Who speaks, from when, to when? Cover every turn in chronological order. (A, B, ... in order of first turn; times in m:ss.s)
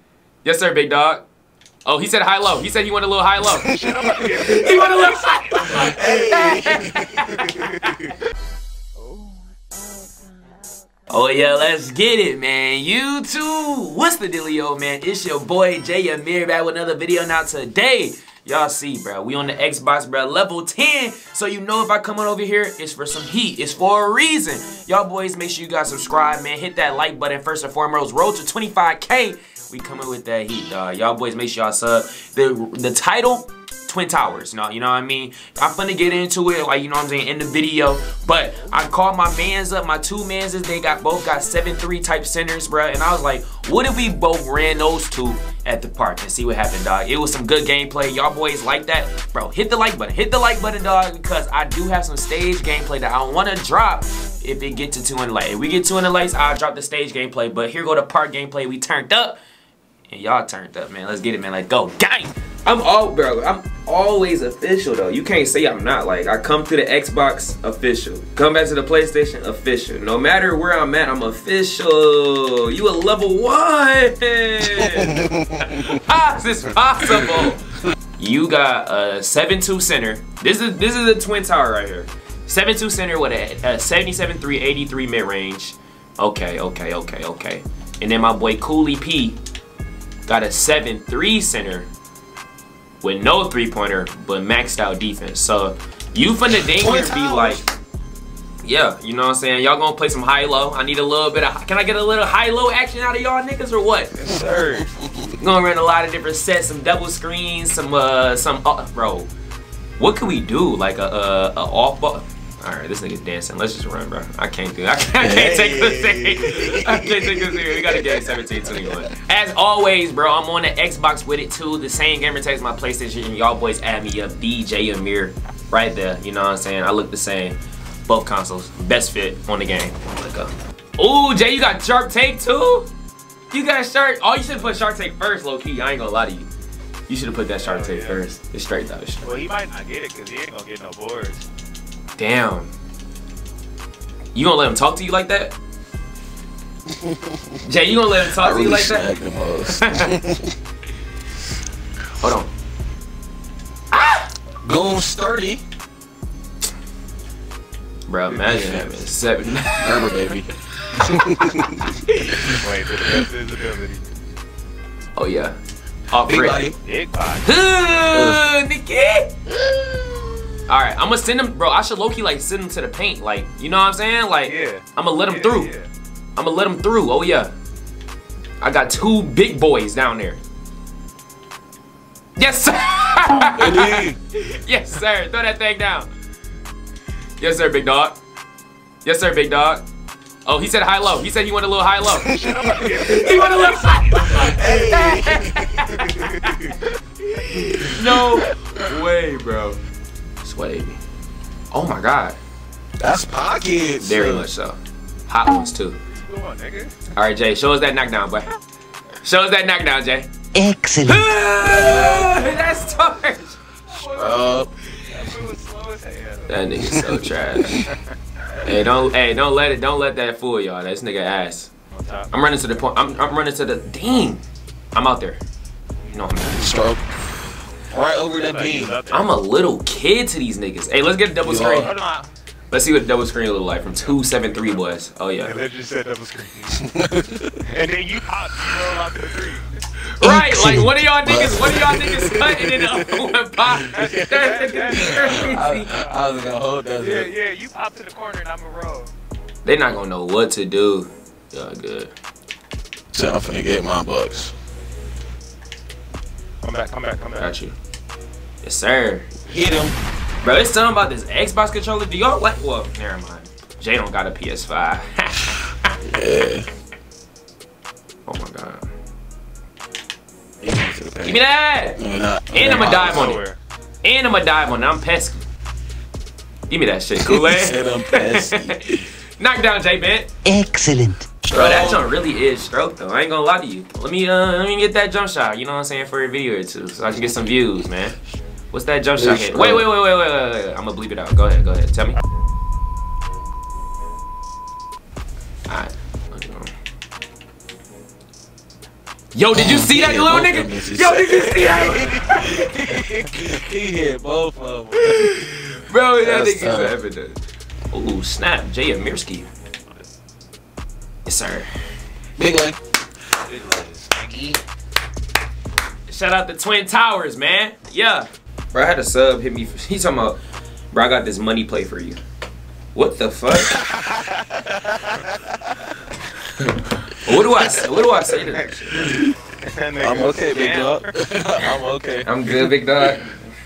0:00.4-0:01.2 A
0:01.8-0:03.7 A
0:03.6-0:03.9 B
0:03.6-0:05.7 C
0:04.3-0:08.0 A
0:05.7-0:07.1 B
0:07.3-0:07.7 C
0:11.1-0:59.4 A
1:00.1-1:17.6 A
1:14.6-1:16.0 B
1:17.0-1:17.5 B
1:18.2-1:29.4 A
1:30.2-1:31.9 A
1:33.0-1:37.6 A
1:36.5-1:37.6 B
1:38.6-1:44.1 A
1:44.2-1:44.8 C
1:44.2-1:45.3 B
1:45.4-1:49.3 A
1:50.0-2:12.9 A
1:55.2-1:59.0 B
2:13.5-2:16.5 A
2:17.1-2:19.2 A
2:17.6-2:18.2 C
2:19.2-2:21.4 C
2:22.2-2:22.7 A
2:24.3-2:25.5 A
2:26.9-2:27.6 B
2:27.6-2:29.1 A
2:28.4-2:30.5 B
2:29.7-2:30.1 A
2:32.2-2:32.5 A
2:33.9-2:34.3 A
2:34.6-2:35.6 B
2:38.1-2:40.1 A
2:38.3-2:39.0 B
2:39.8-2:42.0 B
2:40.8-2:42.6 A
2:42.5-2:44.0 C
2:45.1-2:45.6 A
2:46.1-2:46.7 A
2:46.2-2:46.8 B
2:46.8-2:47.5 C
2:47.4-2:49.3 A
2:48.1-2:48.4 B
2:49.7-2:50.0 B
2:50.7-2:55.7 A
2:54.4-2:55.9 C
2:56.4-2:57.5 A
2:58.6-3:00.4 A
3:02.4-3:06.1 A
3:03.3-3:04.2 B
3:07.4-3:08.2 A
3:09.0-3:09.8 A
3:10.4-3:16.7 A
3:12.2-3:14.5 C
3:14.4-3:15.6 B
3:15.9-3:16.6 C
3:17.3-3:19.8 A
3:17.7-3:18.5 B
3:20.4-3:21.0 A
3:21.7-3:22.4 A
3:23.0-3:24.5 B
3:24.0-3:26.0 A
3:26.1-3:27.0 C
3:27.2-3:28.4 A
3:29.2-3:30.3 A
3:30.5-3:31.3 D
3:31.0-3:33.6 A
3:33.9-3:36.6 C
3:34.0-3:34.7 B
3:36.5-3:37.8 A
3:36.8-3:37.2 B
3:38.6-3:41.7 A
3:41.9-3:42.3 C
3:42.3-3:44.4 A
3:44.9-3:45.4 A
3:46.1-3:46.8 A
3:46.5-3:47.1 B
3:47.9-3:49.0 B
3:48.3-3:49.3 C
3:49.1-3:51.9 A
3:51.4-3:51.9 B
3:51.7-3:52.3 C
3:52.7-3:55.6 A
3:55.4-3:56.8 C
3:56.7-3:57.6 B
3:57.6-3:59.8 C
4:00.0-4:06.0 A
4:00.2-4:00.8 D
4:00.5-4:03.0 B
4:03.9-4:05.6 C
4:04.9-4:07.3 B
4:07.0-4:09.1 C
4:09.6-4:12.1 A
4:13.1-4:14.5 B
4:16.6-4:17.5 C
4:17.4-4:17.7 A
4:18.6-4:19.3 A
4:19.5-4:20.0 B
4:20.4-4:25.9 A
4:26.0-4:26.7 B
4:28.3-4:28.9 A
4:30.6-4:31.4 B
4:31.2-4:32.0 A
4:32.0-4:33.4 B
4:32.5-4:33.4 A
4:32.7-4:33.6 C
4:34.0-4:35.4 A
4:36.7-4:40.3 A
4:37.2-4:39.0 B
4:40.4-4:41.3 D
4:41.4-4:42.0 B
4:41.5-4:48.2 A
4:48.7-4:52.2 A
4:49.2-4:49.8 B
4:55.7-4:56.7 A
4:59.3-5:03.3 A
4:59.5-5:05.2 B
5:05.0-5:07.4 A
5:06.2-5:06.9 B
5:07.9-5:09.5 A
5:11.2-5:11.7 A
5:12.4-5:12.8 B
5:13.4-5:14.6 C
5:16.1-5:20.4 A
5:20.9-5:22.2 A
5:22.9-5:23.8 A
5:23.7-5:25.6 B
5:27.1-5:29.1 A
5:28.9-5:29.3 B
5:29.6-5:31.1 C
5:30.0-5:32.7 B
5:32.2-5:33.3 A